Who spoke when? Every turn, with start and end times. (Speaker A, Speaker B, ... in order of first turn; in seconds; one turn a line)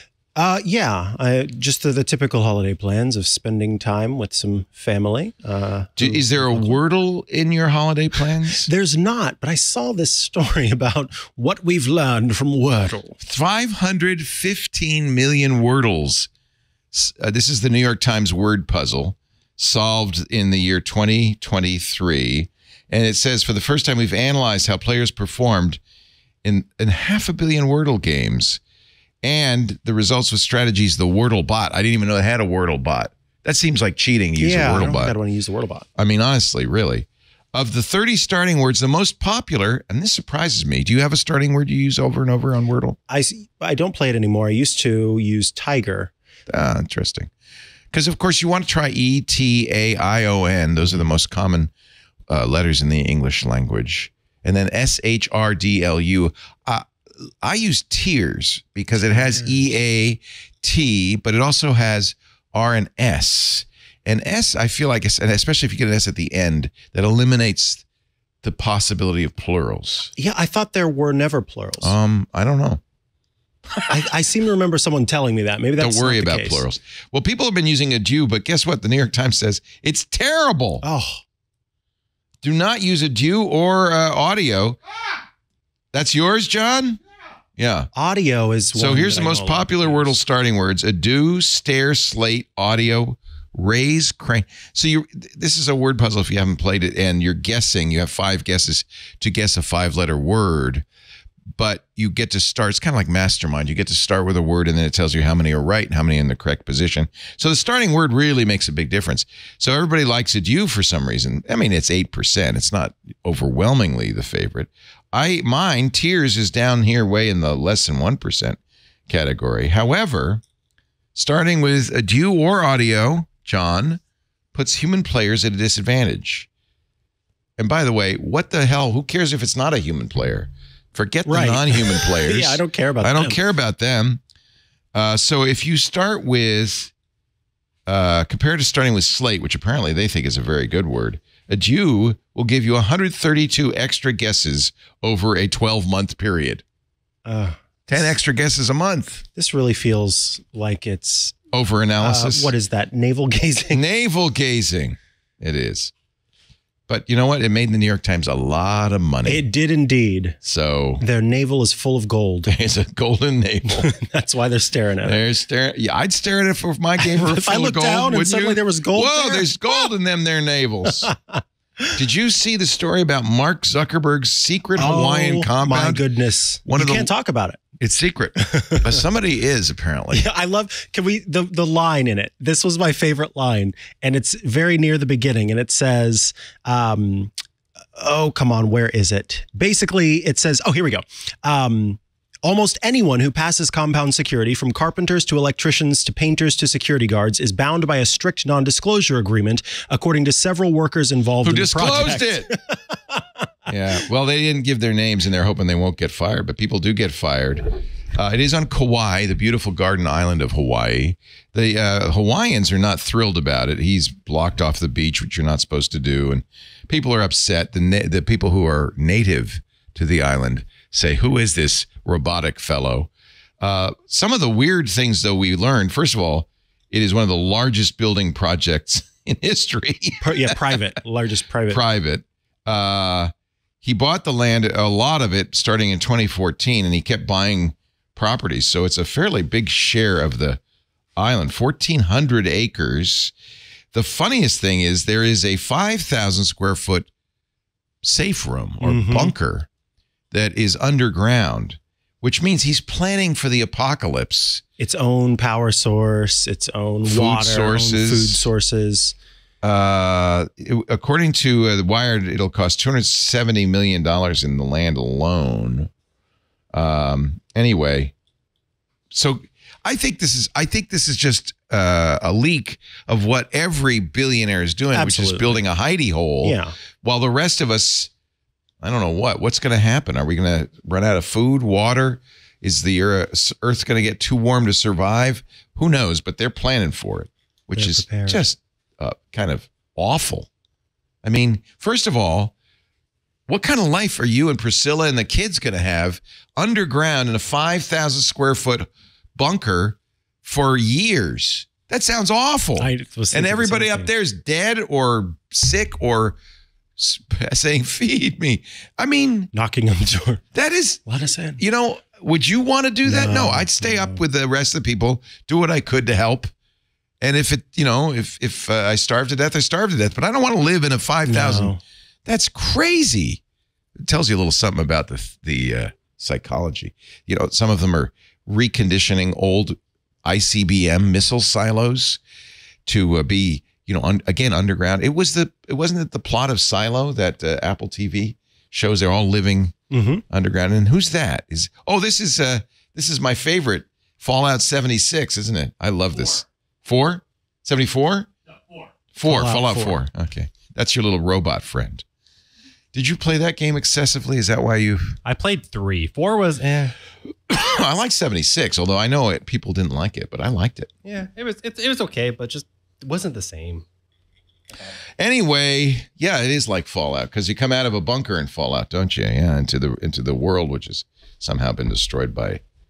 Speaker A: 0.3-6.8
Speaker B: 6.0-8.7
Speaker A: 8.6-13.2
Speaker B: 13.2-16.3
Speaker B: 16.9-25.8
Speaker B: 26.4-28.6
Speaker B: 29.2-35.1
Speaker A: 34.4-35.9
Speaker B: 36.0-43.0
Speaker A: 43.1-46.1
Speaker B: 46.5-47.3
Speaker B: 47.9-51.7
Speaker B: 52.3-56.9
Speaker B: 57.4-67.8
Speaker A: 59.1-59.5
Speaker B: 68.4-70.1
Speaker A: 70.2-71.9
Speaker B: 71.8-72.8
Speaker A: 73.8-76.6
Speaker B: 75.8-80.8
Speaker A: 80.8-81.2
Speaker B: 82.4-84.8
Speaker B: 85.9-87.0
Speaker B: 87.6-87.9
Speaker A: 87.9-90.1
Speaker B: 88.7-100.8
Speaker B: 101.5-120.4
Speaker B: 121.1-124.0
Speaker B: 124.5-126.5
Speaker B: 127.6-134.2
Speaker A: 131.2-133.4
Speaker B: 134.9-136.9
Speaker B: 137.8-146.6
Speaker A: 147.2-147.6
Speaker B: 147.9-149.2
Speaker A: 149.3-151.4
Speaker B: 151.5-152.5
Speaker A: 152.0-153.8
Speaker B: 153.7-155.9
Speaker B: 156.9-159.5
Speaker A: 159.2-160.4
Speaker B: 160.4-161.0
Speaker A: 161.0-162.5
Speaker B: 162.5-163.9
Speaker A: 163.7-165.2
Speaker B: 165.0-171.1
Speaker A: 167.0-169.5
Speaker A: 170.9-171.4
Speaker B: 171.9-176.0
Speaker A: 174.8-177.6
Speaker B: 176.6-177.1
Speaker B: 177.8-180.2
Speaker A: 178.4-179.0
Speaker A: 180.1-187.3
Speaker A: 187.9-202.6
Speaker B: 201.4-202.6
Speaker B: 203.7-230.6
Speaker A: 230.2-231.8
Speaker B: 231.7-233.3
Speaker B: 233.8-240.6
Speaker B: 241.2-243.3
Speaker B: 243.9-247.1
Speaker B: 248.0-249.7
Speaker A: 248.8-249.3
Speaker B: 250.3-254.6
Speaker A: 254.8-259.1
Speaker B: 257.0-258.4
Speaker B: 259.6-265.9
Speaker B: 266.7-268.1
Speaker B: 269.1-278.1
Speaker A: 274.9-275.6
Speaker A: 276.4-276.7
Speaker B: 278.8-290.5
Speaker A: 287.7-288.4
Speaker B: 291.2-292.5
Speaker B: 293.5-306.4
Speaker A: 302.8-304.1
Speaker B: 307.0-309.5
Speaker A: 309.5-310.4
Speaker B: 310.5-311.0
Speaker A: 311.1-311.6
Speaker B: 311.6-316.5
Speaker A: 313.0-314.2
Speaker B: 317.2-321.7
Speaker A: 321.3-321.8
Speaker B: 322.2-323.4
Speaker B: 324.0-332.2
Speaker B: 332.9-339.7
Speaker A: 339.9-340.2
Speaker B: 340.3-348.3
Speaker B: 349.1-352.0
Speaker A: 349.2-350.0
Speaker B: 352.9-355.1
Speaker C: 355.2-356.9
Speaker B: 357.5-360.9
Speaker C: 361.0-363.8
Speaker B: 365.2-372.6